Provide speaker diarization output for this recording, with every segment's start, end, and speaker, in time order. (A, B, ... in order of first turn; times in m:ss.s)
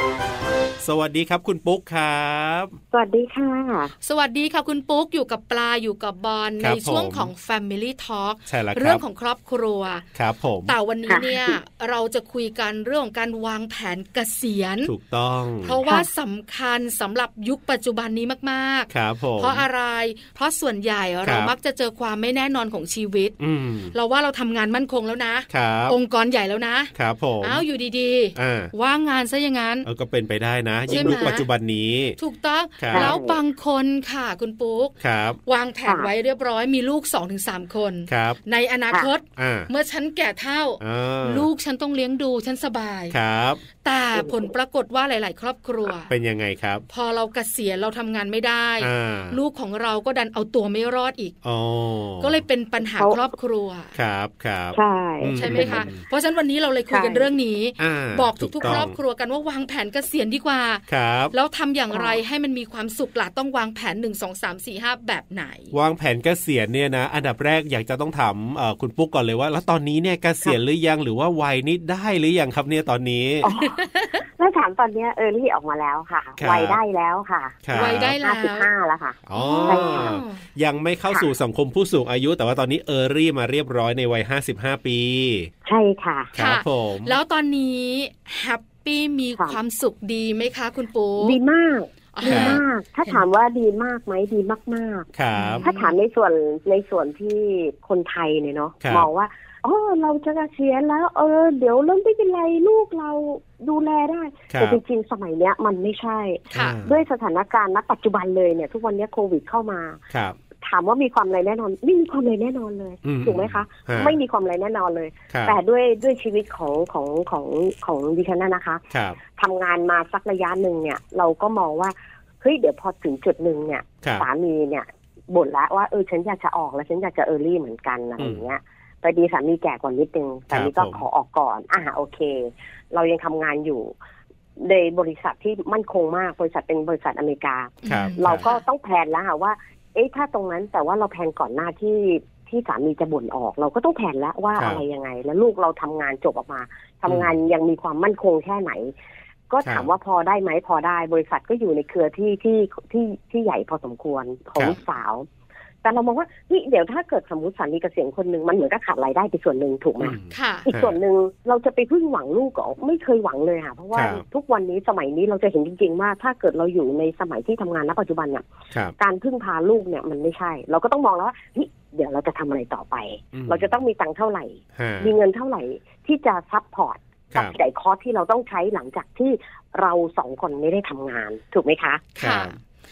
0:00.8-0:02.8 A
0:02.9-0:03.9 B
0:04.0-0:10.0 C
0:06.6-0:07.3 A
0:08.5-0:09.0 A
0:10.2-0:10.8 A
0:10.7-0:14.9 C
0:11.1-0:11.6 B
0:14.8-0:15.8 A
0:15.6-0:23.4 C
0:18.9-0:19.7 A
0:21.2-0:21.5 A
0:23.4-0:24.0 A
0:23.9-0:29.9 C
0:25.5-0:26.0 A
0:27.0-0:27.6 A
0:28.4-0:28.7 A
0:29.8-0:32.2 A
0:30.9-0:31.5 C
0:32.2-0:34.9 C
0:32.8-0:33.2 A
0:32.9-0:33.4 B
0:35.0-0:35.4 A
0:35.5-0:43.2 C
0:35.8-0:36.1 B
0:38.1-0:38.4 A
0:39.4-0:39.7 A
0:40.8-0:41.5 A
0:43.1-0:43.6 A
0:43.8-0:46.1 C
0:44.2-0:44.5 B
0:46.1-0:46.8 A
0:46.9-0:51.4 C
0:48.8-0:49.4 A
0:51.4-0:52.4 A
0:52.2-0:53.9 C
0:52.8-0:53.2 B
0:54.0-0:56.0 A
0:54.7-0:55.9 B
0:55.3-1:05.7 C
0:56.9-0:57.3 B
0:57.8-0:59.0 A
1:00.9-1:01.3 A
1:01.9-1:02.2 B
1:05.7-1:13.5 A
1:13.4-1:20.2 B
1:13.5-1:14.2 C
1:16.4-1:16.8 A
1:17.6-1:18.2 A
1:17.7-1:18.7 C
1:19.3-1:25.5 A
1:19.3-1:20.4 C
1:25.6-1:26.3 B
1:26.4-1:27.2 A
1:26.4-1:31.4 C
1:31.2-1:35.1 B
1:32.1-1:33.2 C
1:32.3-1:32.6 A
1:35.2-1:35.6 A
1:35.3-1:36.0 C
1:35.6-1:50.0 B
1:44.5-1:44.8 A
1:46.5-1:47.0 A
1:50.1-1:50.4 A
1:50.6-1:58.8 B
1:53.0-1:54.2 A
1:55.3-1:55.6 A
1:58.9-1:59.2 A
1:59.4-2:13.9 B
2:08.2-2:08.4 A
2:10.5-2:11.0 A
2:14.6-2:28.9 B
2:17.8-2:18.6 C
2:17.9-2:18.4 A
2:24.6-2:24.8 A
2:27.1-2:27.3 A
2:29.5-2:35.3 B
2:29.6-2:29.9 A
2:35.8-2:48.4 B
2:40.0-2:41.0 A
2:40.3-2:40.7 C
2:43.9-2:44.2 A
2:49.0-3:02.0 B
2:53.3-2:53.8 A
2:54.8-2:55.1 A
3:02.2-3:02.6 C
3:02.2-3:02.6 A